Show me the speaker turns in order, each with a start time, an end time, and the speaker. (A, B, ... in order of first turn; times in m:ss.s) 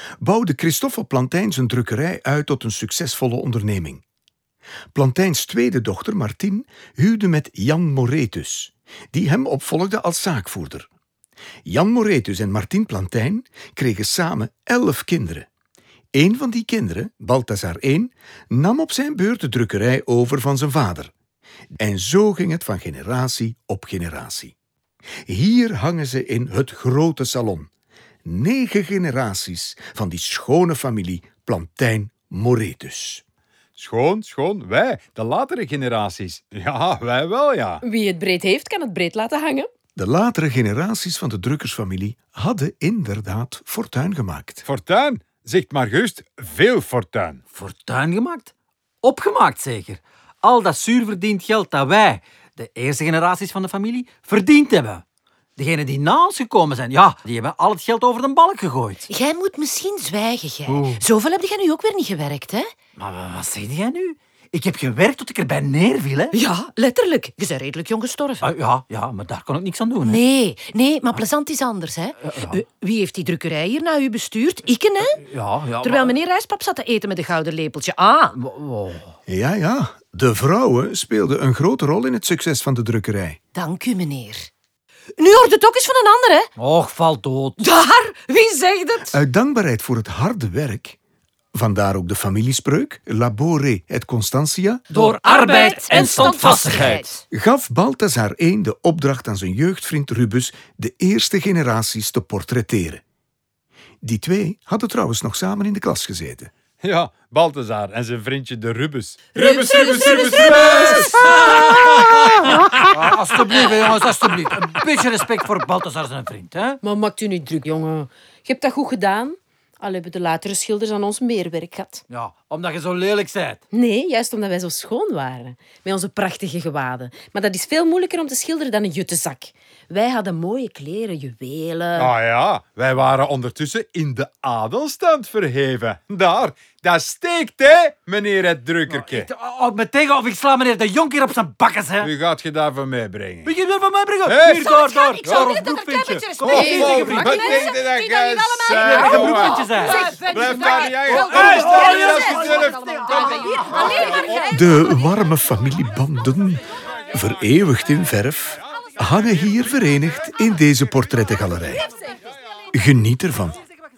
0:00.2-0:04.0 A
0:04.9-0:10.9 A
0:11.6-0:15.5 A
0:16.1-0:21.1 A
0:21.8-0:24.5 A
0:25.2-0:27.7 A
0:28.2-0:33.2 A
0:33.8-0:37.8 B
0:37.8-0:39.7 C
0:40.0-0:44.6 A
0:44.6-0:47.4 B
0:47.5-0:55.0 D
0:55.6-0:59.1 D
0:59.1-1:02.7 E
1:00.7-1:01.0 D
1:03.0-1:06.4 D
1:06.3-1:08.5 E
1:08.4-1:10.2 D
1:10.0-1:15.2 E
1:12.2-1:12.6 D
1:15.2-1:16.2 D
1:15.8-1:18.4 E
1:18.3-1:19.1 D
1:19.3-1:23.4 A
1:23.5-1:24.5 E
1:25.2-1:26.5 E
1:26.6-1:27.6 D
1:27.6-1:29.2 E
1:29.0-1:31.0 A
1:31.5-1:34.8 A
1:34.9-1:37.1 D
1:34.9-1:37.2 E
1:37.3-1:43.0 A
1:44.0-1:46.5 A
1:46.8-1:52.5 B
1:49.5-1:50.7 C
1:52.9-1:56.8 D
1:56.8-2:02.0 C
2:02.1-2:03.6 D
2:03.7-2:12.1 C
2:12.0-2:19.3 B
2:18.9-2:22.1 D
2:22.0-2:23.5 B
2:23.4-2:27.5 D
2:24.2-2:33.4 B
2:24.6-2:34.5 E
2:26.5-2:26.9 C
2:28.8-2:30.1 D
2:29.9-2:30.2 C
2:31.2-2:34.2 D
2:33.5-2:34.3 C
2:34.4-2:41.9 A
2:42.7-2:43.6 A